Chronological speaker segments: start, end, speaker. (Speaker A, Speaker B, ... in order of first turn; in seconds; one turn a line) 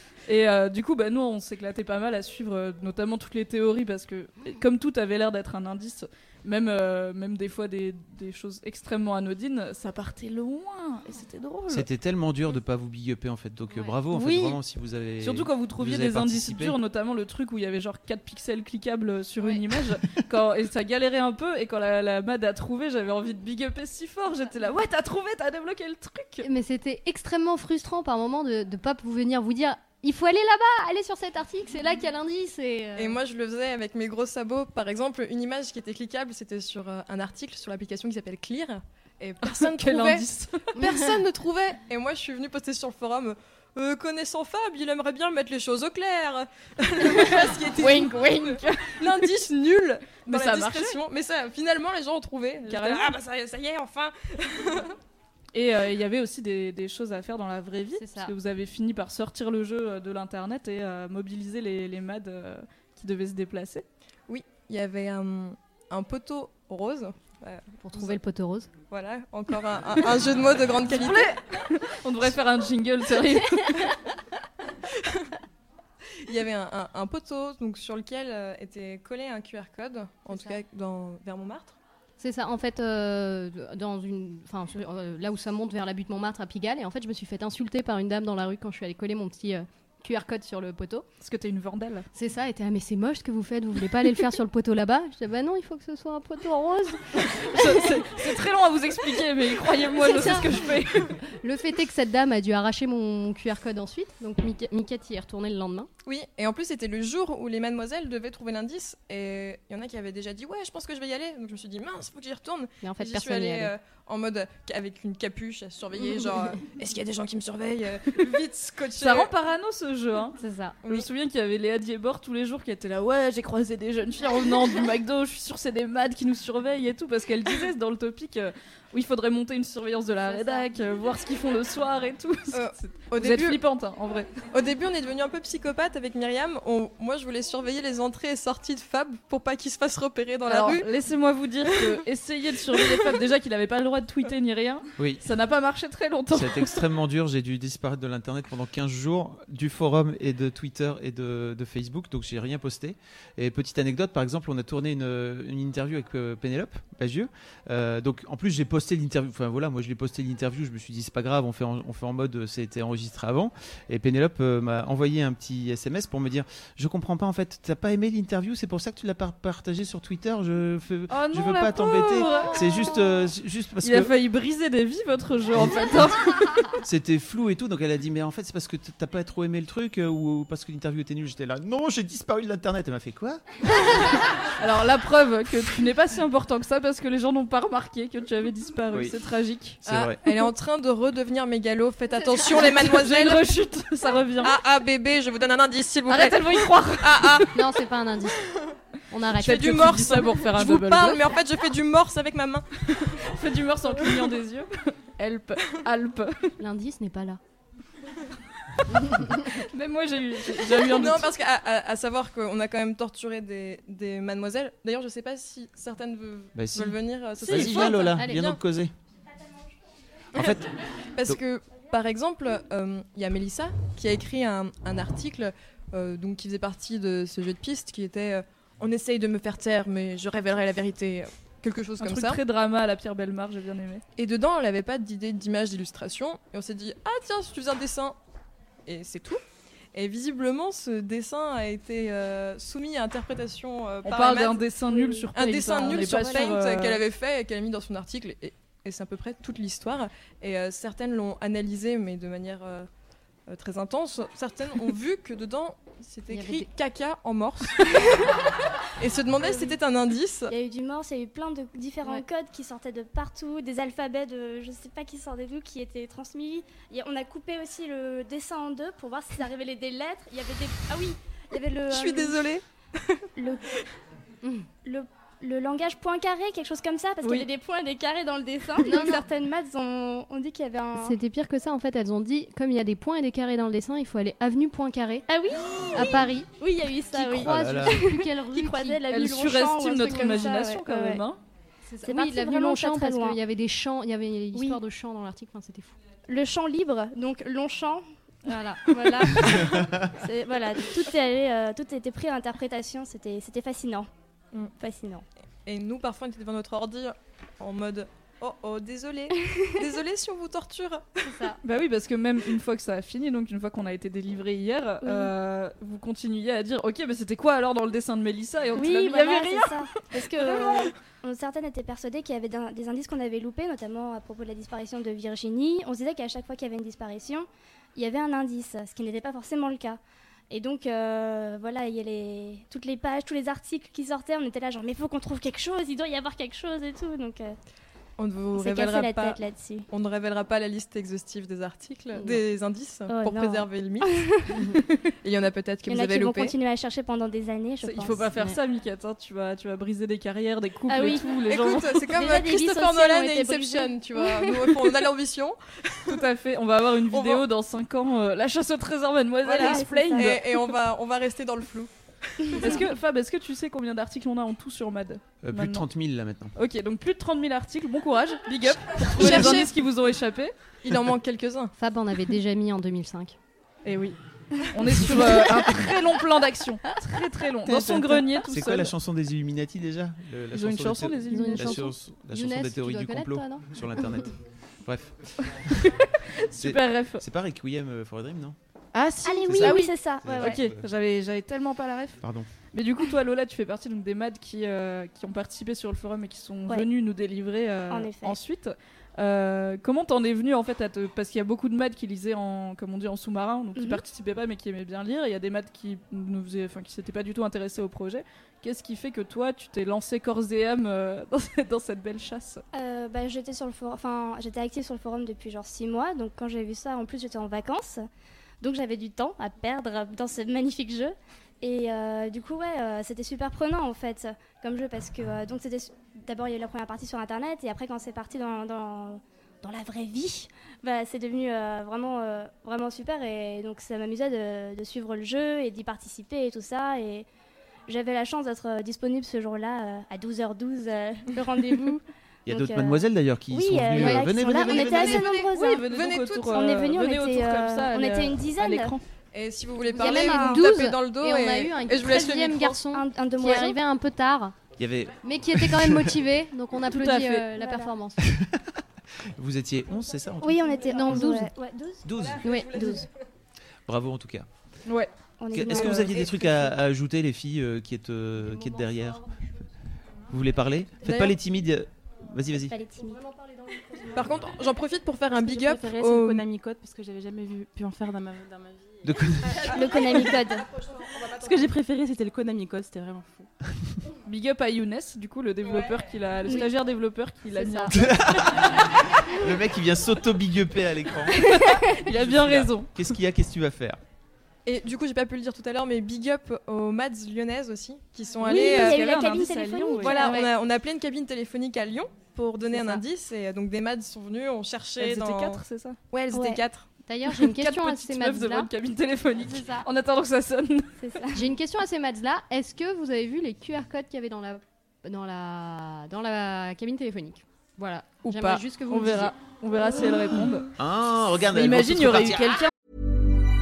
Speaker A: 0.3-11.9
Speaker B: 11.7-16.8
Speaker A: 14.1-14.6
Speaker A: 15.2-26.5
Speaker C: 26.4-33.2
Speaker D: 33.0-55.0
Speaker A: 39.4-40.7
Speaker C: 40.8-41.2
Speaker C: 47.8-48.6
Speaker A: 47.8-48.1
Speaker A: 50.3-51.0
Speaker A: 52.7-53.1
Speaker A: 55.5-63.9
Speaker C: 58.0-58.3
Speaker D: 64.3-68.2
Speaker C: 67.8-68.7
Speaker D: 68.9-71.3
Speaker A: 70.9-73.9
Speaker D: 76.2-81.8
Speaker C: 80.3-80.6
Speaker C: 82.2-91.0
Speaker A: 91.2-92.1
Speaker C: 92.1-97.0
Speaker A: 97.2-101.2
Speaker C: 100.0-100.5
Speaker C: 101.3-105.9
Speaker D: 106.1-119.3
Speaker C: 112.8-113.7
Speaker A: 119.0-134.3
Speaker C: 120.4-120.8
Speaker C: 130.3-130.6
Speaker D: 132.5-133.6
Speaker D: 134.5-140.9
Speaker A: 140.5-146.8
Speaker B: 145.0-145.2
Speaker B: 146.3-174.1
Speaker A: 171.1-173.3
Speaker A: 173.8-176.8
Speaker B: 175.5-176.2
Speaker B: 176.8-183.4
Speaker A: 184.6-189.8
Speaker B: 189.8-190.2
Speaker D: 189.9-193.5
Speaker A: 192.4-194.6
Speaker D: 194.4-197.6
Speaker A: 196.1-197.5
Speaker C: 197.5-198.5
Speaker C: 199.1-200.4
Speaker D: 199.4-202.8
Speaker A: 199.4-201.3
Speaker A: 203.1-206.6
Speaker C: 206.6-207.4
Speaker A: 209.4-211.3
Speaker D: 210.6-218.6
Speaker B: 216.6-218.9
Speaker A: 217.4-218.0
Speaker C: 217.5-218.4
Speaker B: 220.3-220.7
Speaker D: 221.2-232.4
Speaker A: 232.0-234.0
Speaker D: 234.2-238.2
Speaker D: 238.9-239.4
Speaker D: 239.9-244.7
Speaker A: 244.1-247.0
Speaker D: 245.3-252.9
Speaker C: 245.8-246.5
Speaker D: 253.5-258.2
Speaker C: 256.3-256.7
Speaker D: 259.0-260.5
Speaker E: 260.5-272.4
Speaker D: 271.9-273.2
Speaker E: 273.4-273.6
Speaker E: 274.9-281.2
Speaker C: 278.8-279.2
Speaker C: 281.0-285.2
Speaker E: 285.3-291.2
Speaker C: 285.9-286.5
Speaker C: 287.1-289.0
Speaker B: 287.3-288.0
Speaker A: 289.1-291.4
Speaker C: 291.9-295.9
Speaker E: 292.0-293.4
Speaker E: 294.6-294.8
Speaker E: 296.3-299.7
Speaker C: 298.5-298.8
Speaker B: 299.4-300.1
Speaker E: 300.2-304.1
Speaker E: 304.8-305.2
Speaker D: 305.7-311.3
Speaker E: 309.4-309.7
Speaker C: 311.2-311.6
Speaker A: 311.6-319.9
Speaker E: 315.0-315.3
Speaker E: 318.8-330.0
Speaker E: 330.5-337.6
Speaker D: 338.2-339.4
Speaker E: 338.6-339.9
Speaker D: 339.9-344.2
Speaker E: 343.1-344.5
Speaker D: 345.2-346.5
Speaker E: 345.9-348.4
Speaker A: 347.8-352.1
Speaker E: 350.9-351.3
Speaker D: 351.4-356.2
Speaker E: 352.1-354.7
Speaker A: 356.1-360.6
Speaker D: 357.1-357.4
Speaker D: 359.4-362.8
Speaker E: 359.6-360.2
Speaker A: 362.6-365.9
Speaker B: 365.4-366.5
Speaker A: 366.6-370.5
Speaker D: 369.1-369.7
Speaker D: 370.8-371.7
Speaker C: 371.8-373.4
Speaker A: 373.9-378.9
Speaker B: 377.7-384.3
Speaker A: 380.5-381.9
Speaker C: 381.3-384.1
Speaker B: 384.9-385.9
Speaker A: 385.8-387.2
Speaker B: 386.6-388.6
Speaker A: 388.9-392.2
Speaker E: 389.2-390.6
Speaker B: 389.4-390.9
Speaker B: 392.2-392.5
Speaker A: 392.7-412.6
Speaker E: 397.9-398.4
Speaker E: 403.8-404.0
Speaker E: 412.7-418.0
Speaker E: 418.6-437.3
Speaker E: 437.9-445.8
Speaker B: 442.5-445.3
Speaker C: 444.0-444.3
Speaker D: 444.7-446.9
Speaker A: 445.5-449.0
Speaker E: 446.5-449.0
Speaker D: 449.3-452.8
Speaker E: 449.9-450.8
Speaker C: 450.0-454.6
Speaker E: 452.9-453.8
Speaker B: 454.8-456.1
Speaker C: 455.2-458.3
Speaker A: 456.9-457.5
Speaker E: 457.5-457.9
Speaker B: 458.2-458.7
Speaker B: 459.4-461.3
Speaker E: 460.4-462.1
Speaker C: 460.9-461.5
Speaker B: 462.0-462.4
Speaker C: 462.4-463.1
Speaker D: 462.6-462.9
Speaker B: 463.9-464.5
Speaker E: 465.4-466.2
Speaker B: 465.5-469.2
Speaker C: 468.5-469.1
Speaker B: 470.3-472.8
Speaker E: 472.7-473.2
Speaker D: 474.1-476.4
Speaker F: 475.4-479.0
Speaker B: 479.0-479.6
Speaker F: 479.5-480.3
Speaker E: 479.7-480.7
Speaker F: 481.1-483.5
Speaker A: 484.2-488.9
Speaker C: 487.5-487.9
Speaker B: 487.9-494.0
Speaker A: 491.4-492.9
Speaker D: 494.7-499.1
Speaker A: 498.4-500.4
Speaker E: 498.4-500.5
Speaker D: 500.0-506.9
Speaker C: 500.1-500.5
Speaker C: 502.7-503.0
Speaker A: 505.0-506.0
Speaker E: 506.3-506.6
Speaker C: 507.1-508.7
Speaker A: 507.3-510.9
Speaker C: 509.5-509.9
Speaker E: 511.0-511.4
Speaker C: 511.3-519.3
Speaker A: 518.2-520.7
Speaker B: 520.8-522.6
Speaker A: 521.5-522.7